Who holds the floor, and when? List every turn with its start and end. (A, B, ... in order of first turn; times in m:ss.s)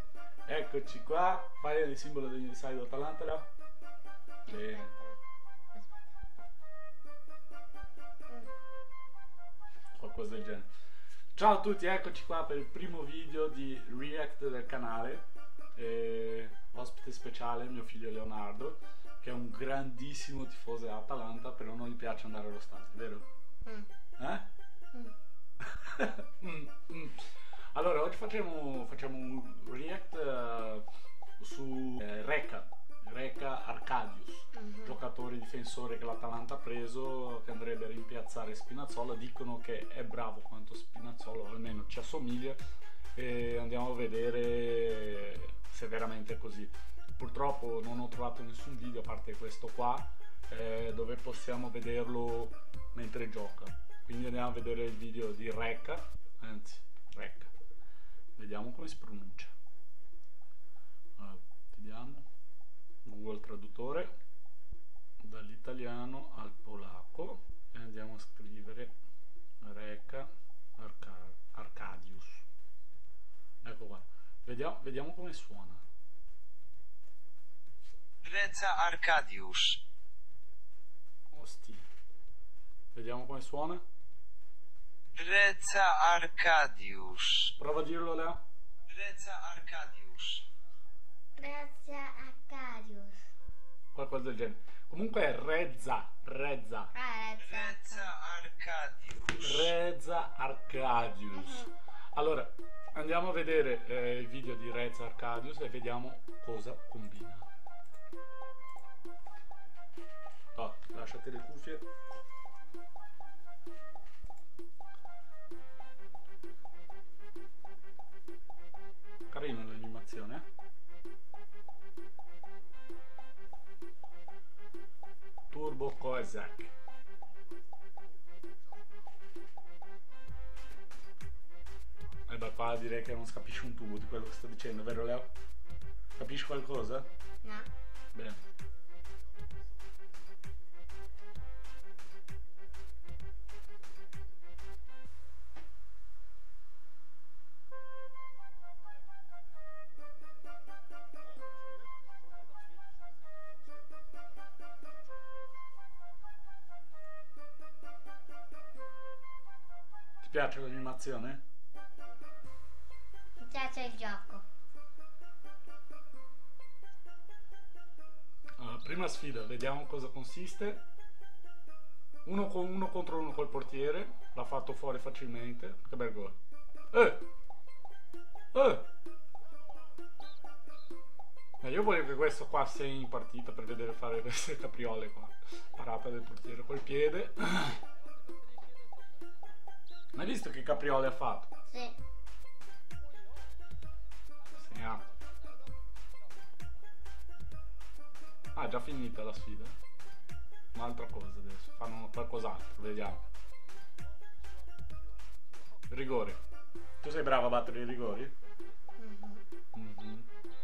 0:00.4-0:03.5 A
0:04.4-0:05.2 B
0:04.5-0:04.9 A
0:05.7-0:06.0 B
0:09.9-0:10.7 A
0:11.3-0:15.2 A
0:15.8-0:23.2 A
0:24.2-0:24.5 A
0:25.6-0:30.8 A
0:31.4-0:42.6 A
0:34.5-0:34.9 B
0:43.2-0:57.5 A
0:58.4-0:59.5 A
1:01.2-1:02.3 A
1:03.0-1:04.1 A
1:05.2-1:08.9 A
1:09.6-1:12.4 A
1:13.6-1:15.8 A
1:18.2-1:19.8 C
1:21.3-1:21.9 A
1:22.9-1:23.8 A
1:25.1-1:27.5 C
1:27.5-1:28.4 A
1:28.9-1:30.5 C
1:31.4-1:33.2 B
1:33.9-1:36.9 A
1:36.9-1:38.1 B
1:37.4-1:39.7 C
1:39.3-1:47.4 A
1:41.3-1:41.6 B
1:50.5-1:51.8 A
1:59.3-2:00.4 A
2:05.5-2:06.7 A
2:12.3-2:15.3 A
2:16.2-2:17.1 A
2:17.4-2:17.7 B
2:18.1-2:18.4 A
2:40.2-2:41.4 A
2:43.4-2:44.4 B
2:48.6-2:50.8 A
2:52.2-2:56.4 A
2:56.9-2:57.2 A
2:58.5-2:58.9 A
3:01.6-3:07.8 A
3:10.1-3:11.5 A
3:11.7-3:12.0 B
3:14.6-3:15.0 A
3:18.5-3:19.8 A
3:20.7-3:23.2 A
3:25.9-3:26.4 A
3:27.0-3:28.3 A
3:29.0-3:29.4 B
3:29.7-3:30.3 A